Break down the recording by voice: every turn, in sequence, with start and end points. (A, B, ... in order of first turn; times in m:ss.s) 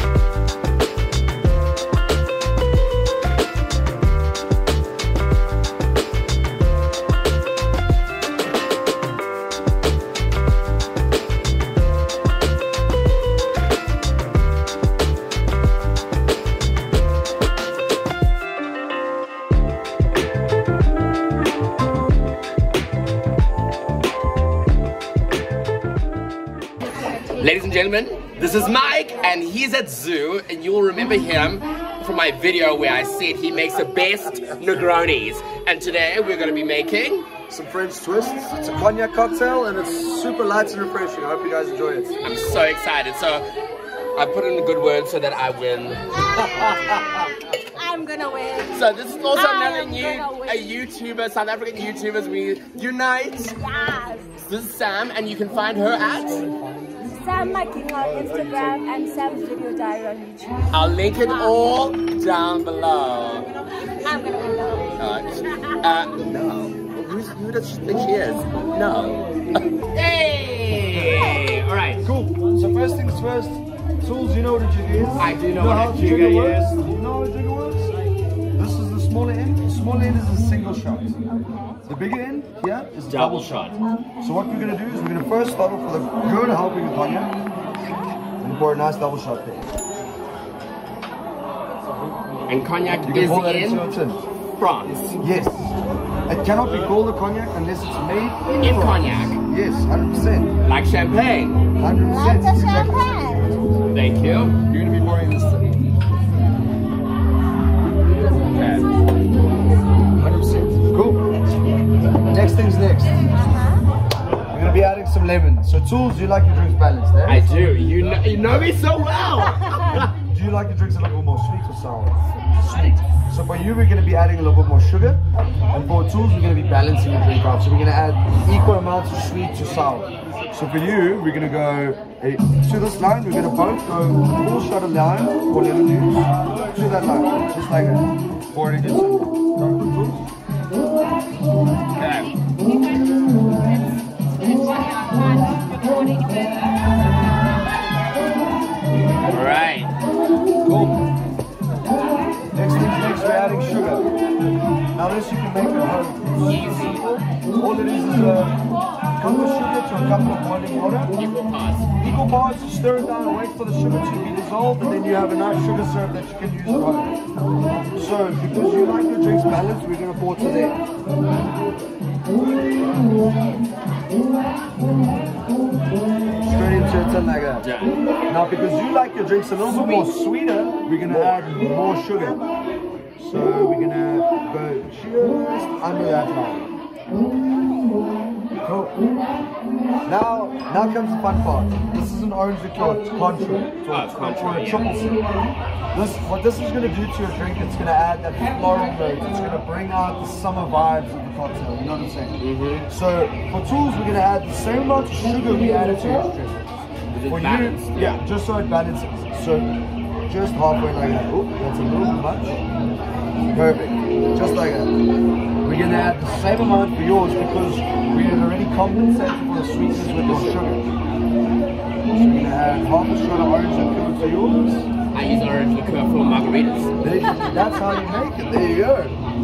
0:26.9-0:37.2 A
0:37.5-0:42.2 B
0:42.2-0:43.5 A
0:44.2-0:47.4 A
0:47.8-0:48.7 C
0:48.7-0:53.8 A
0:49.6-0:50.3 C
0:53.8-0:54.2 C
0:54.4-0:56.5 A
0:57.0-0:58.9 B
0:57.4-1:00.5 C
1:00.7-1:03.5 A
1:04.2-1:04.9 C
1:05.0-1:09.2 A
1:09.9-1:12.0 A
1:11.0-1:11.3 B
1:12.0-1:21.2 B
1:15.2-1:16.8 A
1:21.8-1:23.6 B
1:23.1-1:23.8 A
1:24.2-1:27.4 B
1:28.4-1:29.7 B
1:32.5-1:33.9 A
1:33.0-1:34.2 B
1:34.6-1:35.1 A
1:35.2-1:35.8 B
1:36.3-1:40.5 B
1:38.6-1:39.4 A
1:40.6-1:41.7 A
1:41.8-1:43.7 B
1:43.9-1:44.7 A
1:44.7-1:45.6 B
1:48.3-1:48.9 A
1:50.2-1:51.2 B
1:50.2-1:50.5 A
1:52.3-1:53.3 B
1:54.5-1:57.5 B
1:57.3-2:00.1 A
2:00.3-2:05.2 B
2:05.7-2:20.2 B
2:21.9-2:22.3 A
2:24.6-2:26.5 C
2:29.3-2:30.0 A
2:30.6-2:31.0 B
2:32.5-2:34.1 B
2:34.9-2:38.6 B
2:36.4-2:37.1 A
2:39.2-2:41.1 B
2:41.1-2:41.9 A
2:42.0-2:47.2 B
2:47.9-2:50.8 B
2:56.4-2:57.7 B
2:57.6-2:57.9 A
2:58.3-3:02.4 B
2:59.7-3:00.1 A
3:03.2-3:06.7 B
3:08.6-3:09.0 B
3:10.0-3:26.7 B
3:13.9-3:15.0 A
3:22.4-3:22.9 A
3:27.1-3:28.2 A
3:27.3-3:29.8 B
3:30.3-3:32.6 B
3:33.5-3:34.9 B
3:35.6-3:40.9 B
3:39.9-3:40.6 A
3:42.1-3:44.9 B
3:45.1-3:46.9 A
3:47.0-3:49.2 B